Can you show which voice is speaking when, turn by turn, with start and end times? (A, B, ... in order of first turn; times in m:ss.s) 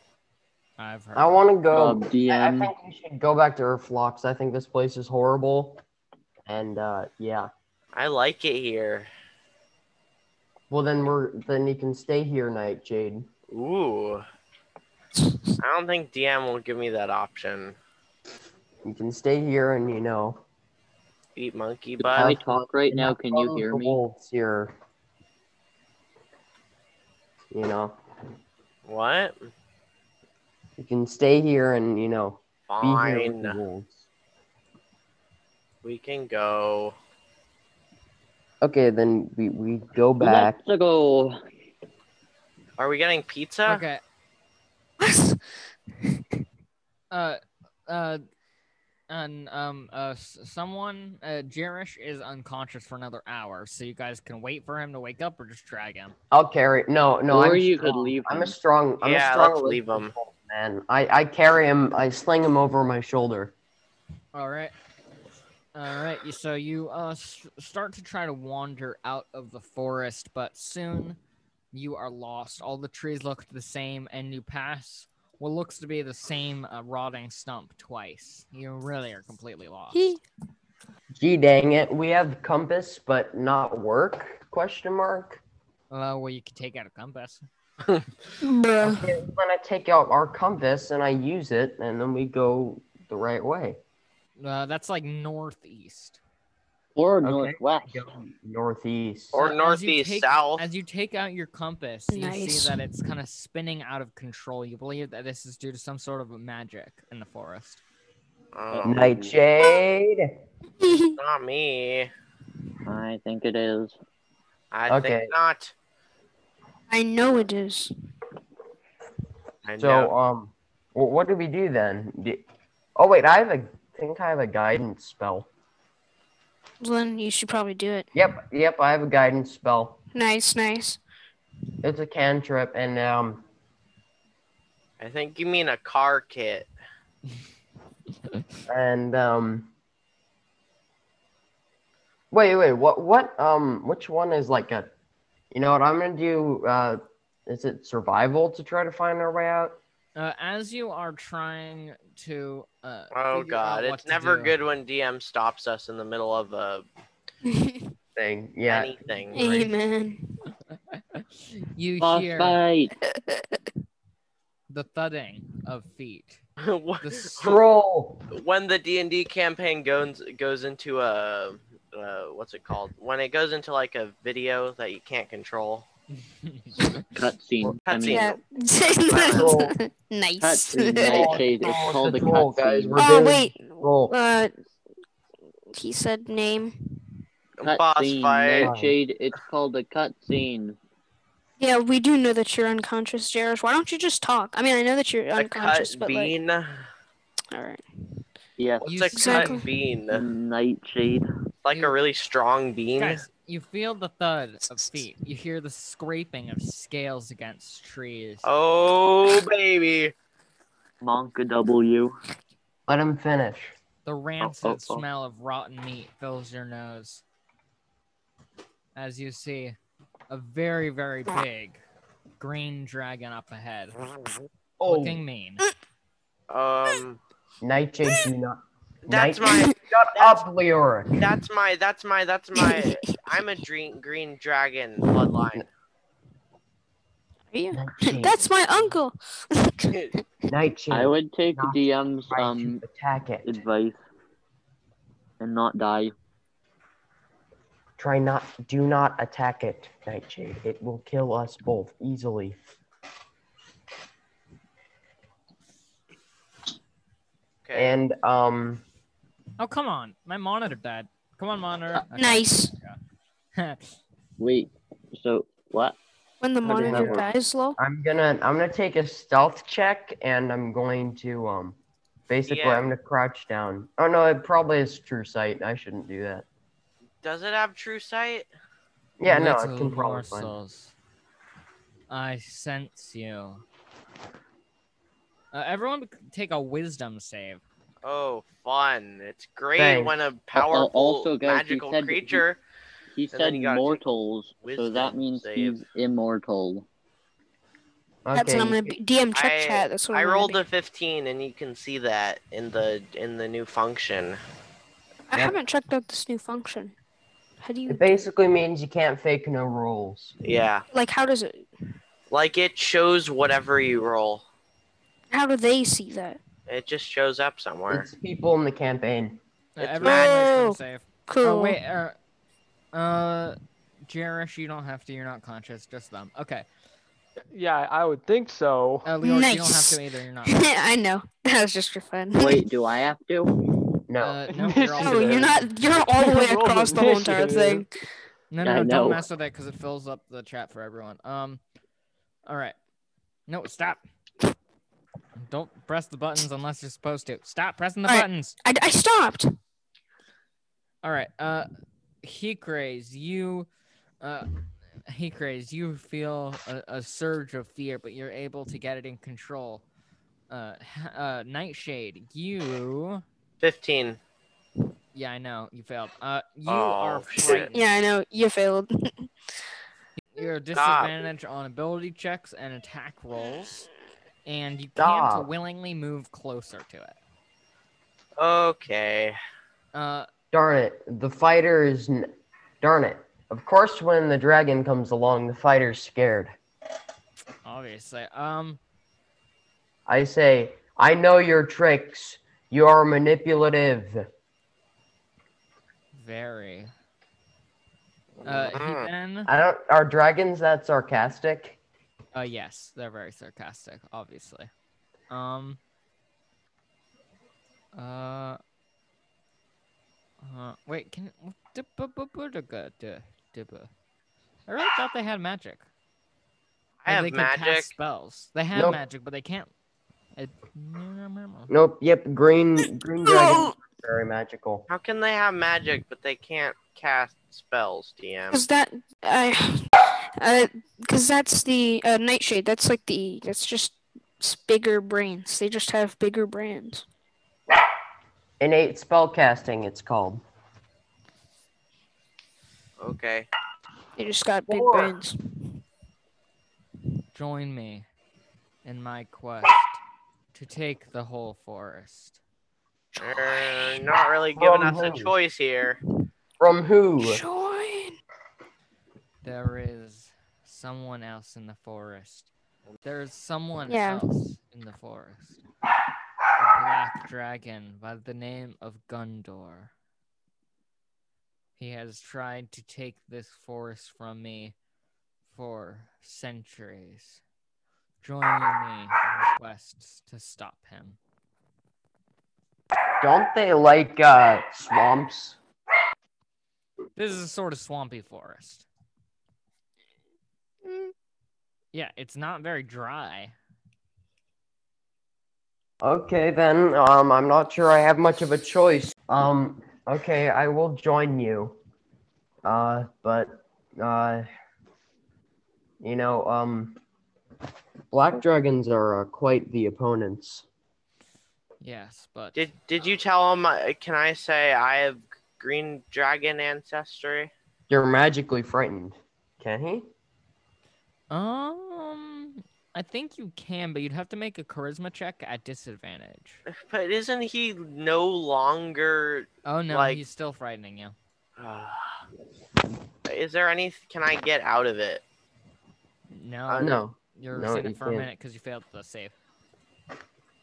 0:00.8-0:01.4 A
0:01.2-0:05.8 B
0:01.7-0:02.7 C
0:06.5-0:07.5 B
0:07.9-0:09.1 D
0:10.7-0:13.3 B
0:13.5-0:14.2 D
0:15.6-0:17.8 D
0:18.8-0:20.4 B
0:21.4-0:22.4 D
0:22.0-0:24.0 C
0:22.2-0:24.7 B
0:27.5-0:28.0 B
0:28.9-0:29.4 D
0:30.8-0:34.0 B
0:32.7-0:33.6 D
0:35.8-0:37.0 D
0:38.6-0:40.6 B
0:40.2-0:41.4 C
0:42.8-0:43.8 D
0:43.6-0:44.0 A
0:45.0-0:45.4 E
0:47.1-0:48.2 A
0:49.1-0:56.2 A
0:56.3-1:03.5 B
0:57.3-0:58.6 C
0:59.0-1:00.1 D
1:04.3-1:04.7 A
1:05.7-1:11.2 A
1:11.7-1:20.0 A
1:19.9-1:20.2 E
1:21.1-1:25.4 B
1:25.9-1:27.5 A
1:28.4-1:29.1 E
1:28.8-1:33.8 B
1:34.4-1:36.2 A
1:37.0-1:38.0 C
1:37.2-1:39.4 B
1:39.3-1:40.7 D
1:39.4-1:47.8 A
1:42.1-1:42.8 E
1:48.5-1:49.0 D
1:48.7-1:49.4 C
1:48.8-1:50.3 B
1:50.8-1:51.2 E
1:51.2-1:52.1 D
1:52.9-1:54.0 C
1:54.7-1:55.7 D
1:54.9-1:55.3 B
1:56.9-1:57.9 E
1:59.6-2:00.1 D
1:59.8-2:02.4 B
2:03.0-2:05.5 B
2:06.8-2:08.1 E
2:08.2-2:10.0 B
2:10.1-2:11.0 E
2:11.8-2:13.4 B
2:15.0-2:16.7 D
2:18.7-2:19.7 B
2:22.3-2:24.9 B
2:25.5-2:29.8 B
2:30.2-2:34.6 A
2:33.1-2:36.9 D
2:37.4-2:37.9 E
2:38.2-2:39.7 B
2:38.7-2:39.4 D
2:39.3-2:40.4 E
2:41.2-2:42.6 A
2:42.0-2:42.9 C
2:43.1-2:43.6 E
2:44.7-2:46.4 A
2:46.6-2:47.6 D
2:47.0-2:47.5 A
2:47.4-2:48.2 B
2:48.3-2:55.9 D
2:56.4-2:56.9 A
2:57.1-2:58.3 C
2:57.9-2:58.4 D
2:58.1-3:01.4 E
2:59.0-2:59.6 D
2:59.3-2:59.8 B
3:00.4-3:03.2 C
3:01.0-3:04.1 B
3:03.0-3:04.5 E
3:05.7-3:07.0 E
3:07.6-3:08.7 D
3:07.6-3:10.8 C
3:08.6-3:08.9 B
3:11.6-3:16.3 E
3:15.4-3:16.8 D
3:17.5-3:17.8 E
3:18.6-3:18.9 C
3:18.8-3:20.2 D
3:18.8-3:19.6 A
3:19.2-3:19.6 E
3:20.1-3:21.3 C
3:21.6-3:23.2 D
3:23.0-3:28.5 A
3:28.4-3:30.1 D
3:31.0-3:32.1 C
3:32.9-3:33.7 B
3:34.0-3:37.2 A
3:34.4-3:35.0 C
3:39.0-3:39.8 A
3:40.3-3:41.8 A
3:42.4-3:44.0 A
3:44.8-3:45.2 B
3:44.8-3:45.7 A
3:46.5-3:47.2 D
3:47.6-3:51.2 B
3:49.1-3:50.4 D
3:49.4-3:49.7 E
3:51.2-3:55.7 D
3:52.6-3:53.4 E
3:57.5-4:00.0 E
3:57.7-3:58.5 B
4:00.5-4:03.5 B
4:00.9-4:02.8 C
4:03.4-4:04.0 C
4:05.4-4:06.1 C
4:08.0-4:12.6 B
4:17.6-4:18.0 D
4:17.7-4:18.8 B
4:19.6-4:23.0 A
4:22.2-4:22.7 E
4:23.6-4:23.9 A
4:24.4-4:26.0 C
4:26.4-4:27.8 E
4:26.6-4:31.8 B
4:32.3-4:36.4 B
4:32.5-4:32.9 D
4:37.2-4:38.5 D
4:39.2-4:40.5 B
4:39.2-4:40.9 A
4:42.1-4:43.6 A
4:45.5-4:47.6 A
4:48.0-4:52.6 D
4:49.8-4:50.2 B
4:50.5-4:52.4 C
4:53.2-4:56.9 C
4:53.3-4:54.0 D
4:54.6-4:55.8 D
4:58.2-4:59.0 B
4:58.4-5:00.6 E
4:59.3-5:04.4 D
5:05.3-5:06.9 E
5:07.6-5:08.2 E
5:07.9-5:10.4 B
5:10.4-5:10.8 D
5:10.9-5:11.6 E
5:12.3-5:14.4 D
5:15.3-5:16.4 E
5:16.7-5:18.1 D
5:17.9-5:19.4 B
5:19.8-5:22.2 A
5:19.8-5:20.3 D
5:20.0-5:21.8 E
5:22.9-5:23.6 A
5:24.1-5:26.7 A
5:27.5-5:29.1 F
5:29.0-5:30.7 A
5:29.2-5:32.6 E
5:32.4-5:33.6 C
5:33.6-5:34.0 E
5:34.1-5:34.4 B
5:34.2-5:35.7 A
5:34.5-5:37.9 F
5:35.0-5:37.9 E
5:38.5-5:41.6 A
5:38.6-5:39.2 C
5:42.5-5:42.8 A
5:43.5-5:44.0 A
5:45.4-5:48.6 A
5:48.1-5:49.5 E
5:51.0-5:51.7 A
5:52.2-5:53.7 A
5:54.2-5:54.5 A
5:55.1-5:59.8 A
6:00.5-6:03.2 A
6:03.6-6:04.2 D
6:05.1-6:07.9 A
6:06.7-6:07.7 D
6:07.4-6:09.3 E
6:10.2-6:13.9 A
6:10.8-6:11.1 D
6:14.5-6:17.2 A
6:15.0-6:15.5 B
6:18.4-6:19.4 D
6:19.9-6:20.3 A
6:20.5-6:22.3 B
6:22.8-6:26.6 B
6:27.6-6:28.8 A
6:30.1-6:34.3 B
6:36.1-6:36.9 A
6:38.4-6:39.5 A
6:38.5-6:39.1 D
6:39.5-6:41.8 B
6:42.4-6:44.7 A
6:45.3-6:45.8 A
6:48.0-6:48.6 A
6:50.4-6:53.9 A
6:54.7-6:55.8 A
6:57.0-6:57.9 D
6:57.1-6:59.7 A
6:58.7-6:59.0 B
7:00.4-7:01.7 A
7:01.7-7:04.8 B
7:03.3-7:03.7 E
7:04.9-7:08.6 D
7:08.5-7:17.0 E
7:18.6-7:20.4 B
7:23.0-7:23.5 D
7:24.2-7:25.6 E
7:24.7-7:25.2 B
7:27.3-7:28.0 A
7:28.8-7:30.0 A
7:30.5-7:32.4 A
7:33.2-7:36.0 D
7:33.6-7:33.9 E
7:34.6-7:35.3 B
7:36.6-7:37.4 B
7:37.2-7:38.2 E
7:39.4-7:42.5 A
7:43.0-7:45.6 A
7:43.9-7:44.3 E
7:46.6-7:49.9 A
7:51.8-7:54.7 A
7:55.5-7:57.4 A
7:58.2-8:01.2 A
8:03.2-8:05.6 B
8:07.2-8:08.9 A
8:10.9-8:11.1 E
8:11.9-8:13.5 A
8:16.0-8:21.8 B
8:22.6-8:24.5 B
8:26.0-8:27.0 B
8:28.1-8:30.6 B
8:31.8-8:32.7 A
8:32.6-8:37.5 D
8:37.9-8:40.1 B
8:41.3-8:46.6 A
8:46.7-8:50.2 D
8:49.6-8:51.2 A
8:51.6-8:52.1 D
8:53.2-8:55.2 D
8:56.3-8:59.3 A
8:56.7-8:57.0 D
8:56.8-8:58.3 B